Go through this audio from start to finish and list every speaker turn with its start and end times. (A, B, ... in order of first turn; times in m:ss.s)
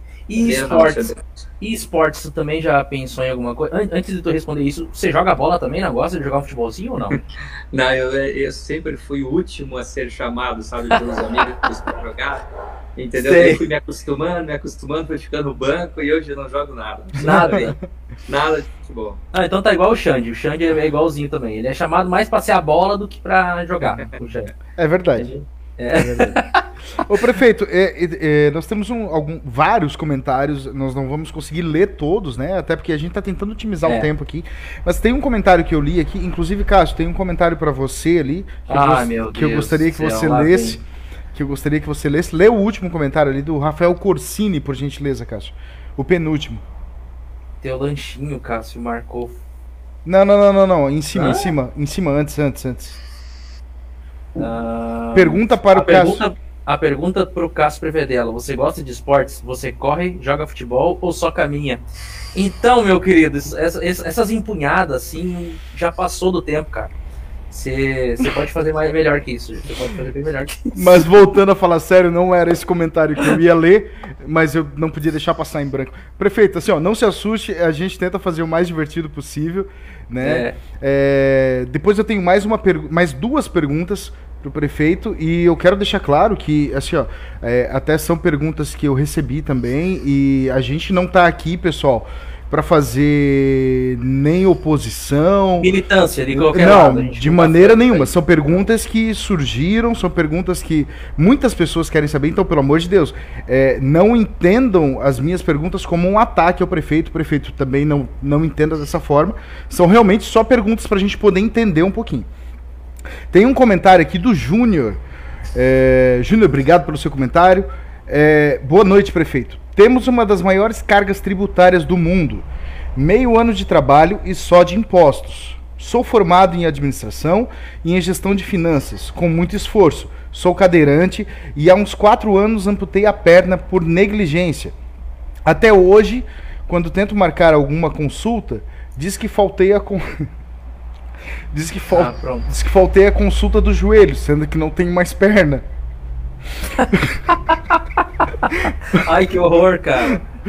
0:00.3-0:07.2 A
0:00.4-0:01.2 B
0:07.1-0:17.7 B
0:13.2-0:13.6 A
0:17.2-0:17.7 A
0:17.2-0:17.7 C
0:18.3-0:19.2 B
0:19.3-0:24.5 A
0:24.8-0:25.3 C
0:25.2-0:26.6 A
0:26.0-0:26.4 C
0:27.0-0:40.8 C
0:38.7-0:40.8 A
0:41.3-0:46.6 C
0:47.6-0:49.4 A
0:50.0-0:53.0 C
0:51.1-0:51.5 A
0:54.4-1:01.8 A
0:55.1-0:56.2 C
1:02.3-1:06.9 A
1:07.5-1:11.0 A
1:10.7-1:35.7 C
1:20.2-1:20.6 A
1:35.6-1:38.2 A
1:36.3-1:52.3 C
1:53.3-1:55.0 C
1:55.5-2:14.7 C
2:15.4-2:20.3 C
2:21.5-2:25.6 C
2:21.9-2:22.5 A
2:28.9-2:30.2 A